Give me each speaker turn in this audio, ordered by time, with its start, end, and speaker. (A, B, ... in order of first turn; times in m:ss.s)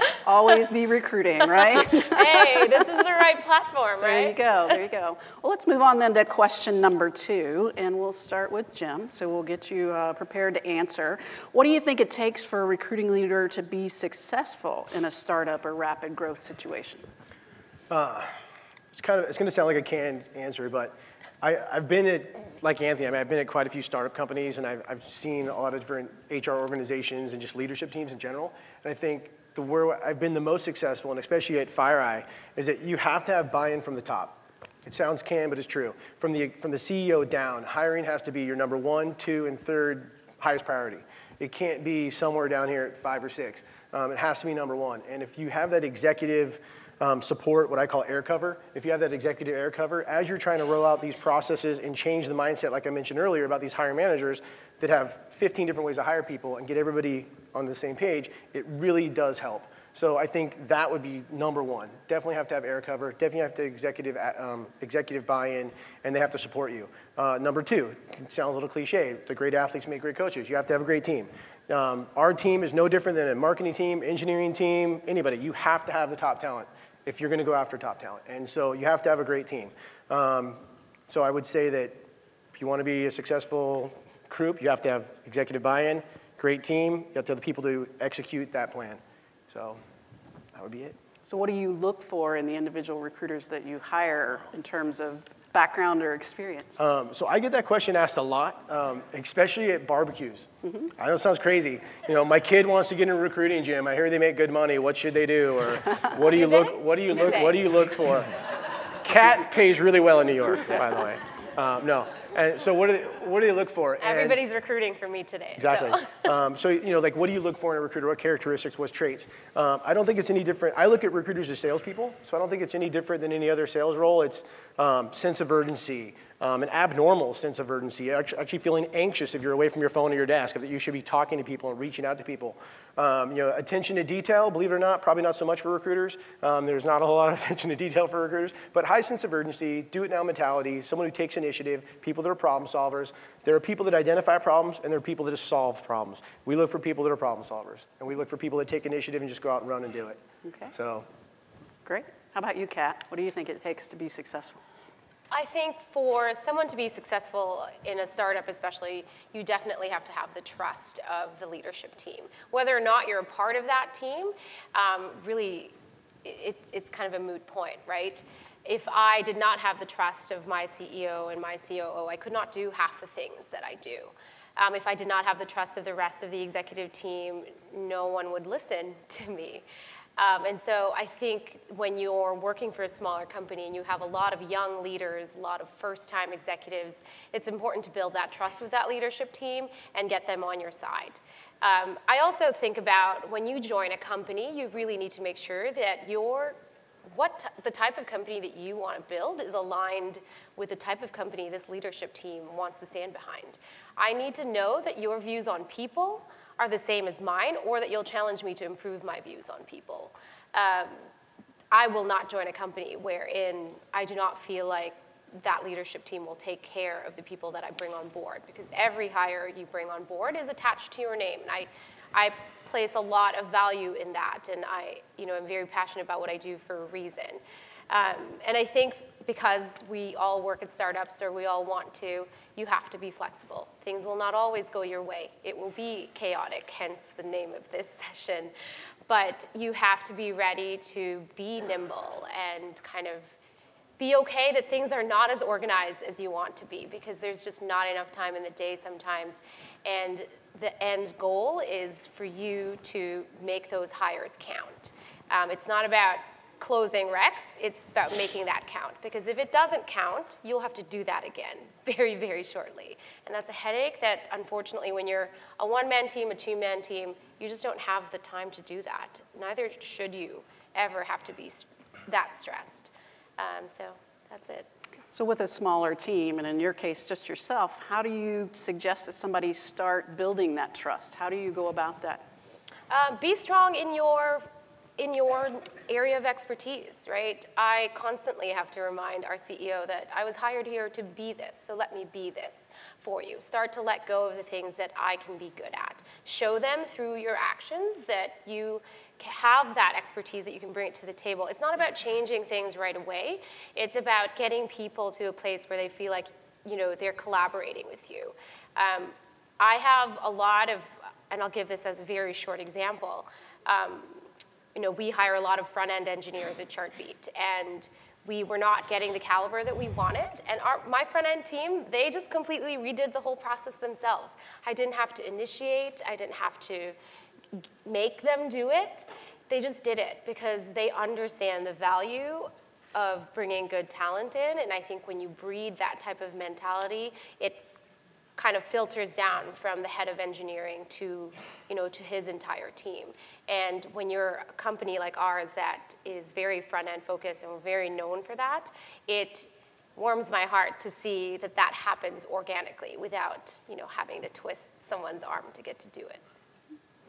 0:00.2-0:02.8 A
0:01.7-0:04.4 B
0:04.0-0:17.1 A
0:17.9-0:18.3 C
0:18.9-1:22.0 C
1:22.6-1:29.8 C
1:30.5-1:31.0 C
1:31.2-1:36.8 A
1:36.8-1:48.4 C
1:46.2-1:47.6 B
1:49.0-1:54.4 C
1:54.0-1:56.2 B
1:55.6-2:30.2 C
2:30.4-2:30.7 A
2:30.7-2:31.1 C
2:31.8-2:34.6 A
2:35.3-2:45.7 B
2:46.2-2:59.6 B
3:00.2-3:31.0 B
3:31.7-3:58.5 B
3:59.1-4:03.3 B
4:04.0-4:34.7 B
4:35.1-4:42.2 A
4:42.9-4:44.4 B
4:45.0-5:14.2 B
5:14.7-5:26.9 B
5:27.8-5:37.7 B
5:38.4-5:56.2 B